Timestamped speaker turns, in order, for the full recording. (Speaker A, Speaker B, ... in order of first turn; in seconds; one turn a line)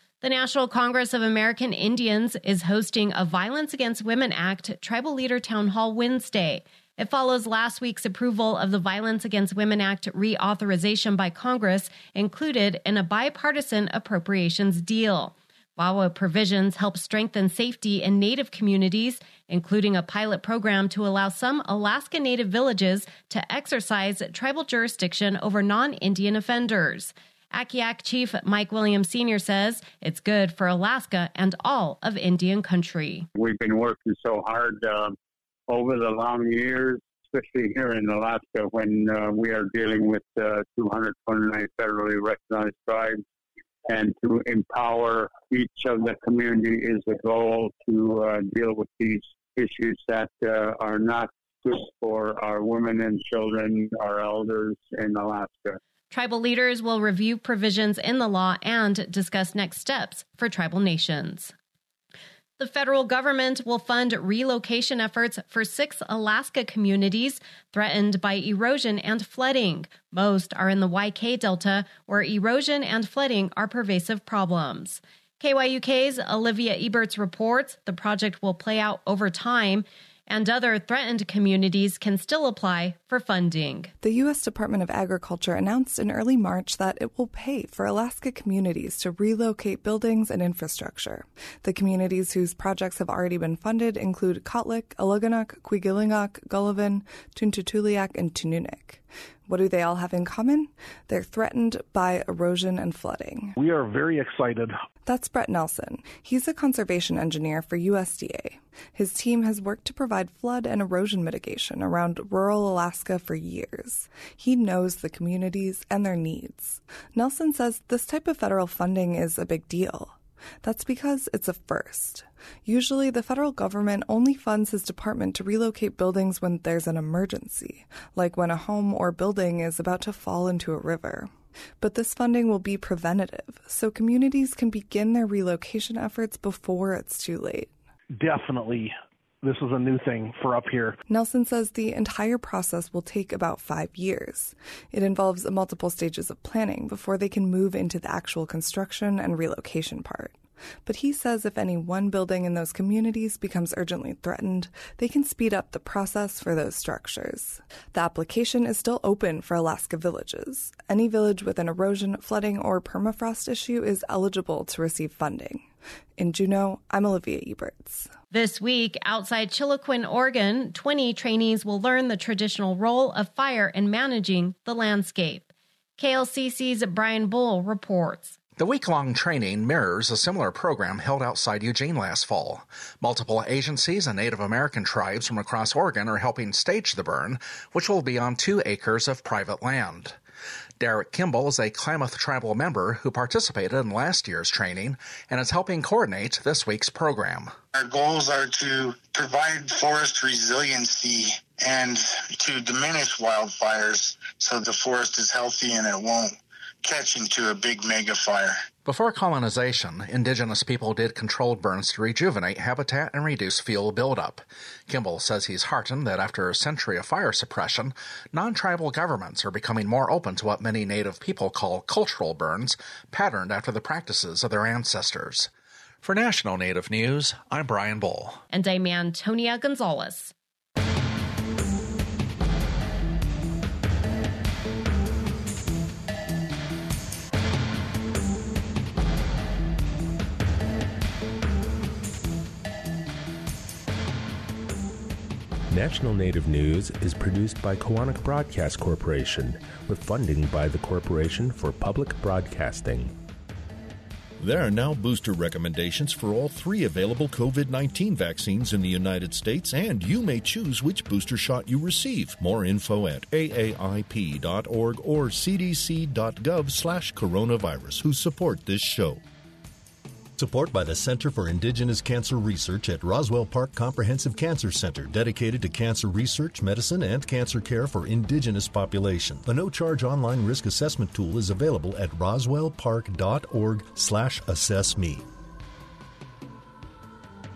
Speaker A: 0.2-33.3
Speaker B: 33.4-35.1
Speaker B: 35.7-43.2
Speaker B: 43.9-55.8
Speaker A: 56.1-61.5
Speaker A: 62.6-83.9
Speaker C: 84.0-103.5
Speaker D: 103.6-104.7
Speaker C: 105.0-131.3
Speaker C: 131.8-137.7
Speaker D: 138.2-141.0
Speaker C: 141.1-165.7
Speaker C: 166.2-168.1
Speaker A: 168.3-178.3
Speaker E: 178.6-190.2
Speaker E: 190.8-197.5
Speaker F: 197.7-208.5
Speaker E: 208.8-225.5
Speaker E: 226.0-228.4
Speaker A: 228.5-230.3
Speaker G: 245.7-253.1
Speaker H: 254.4-269.2
Speaker H: 270.4-285.2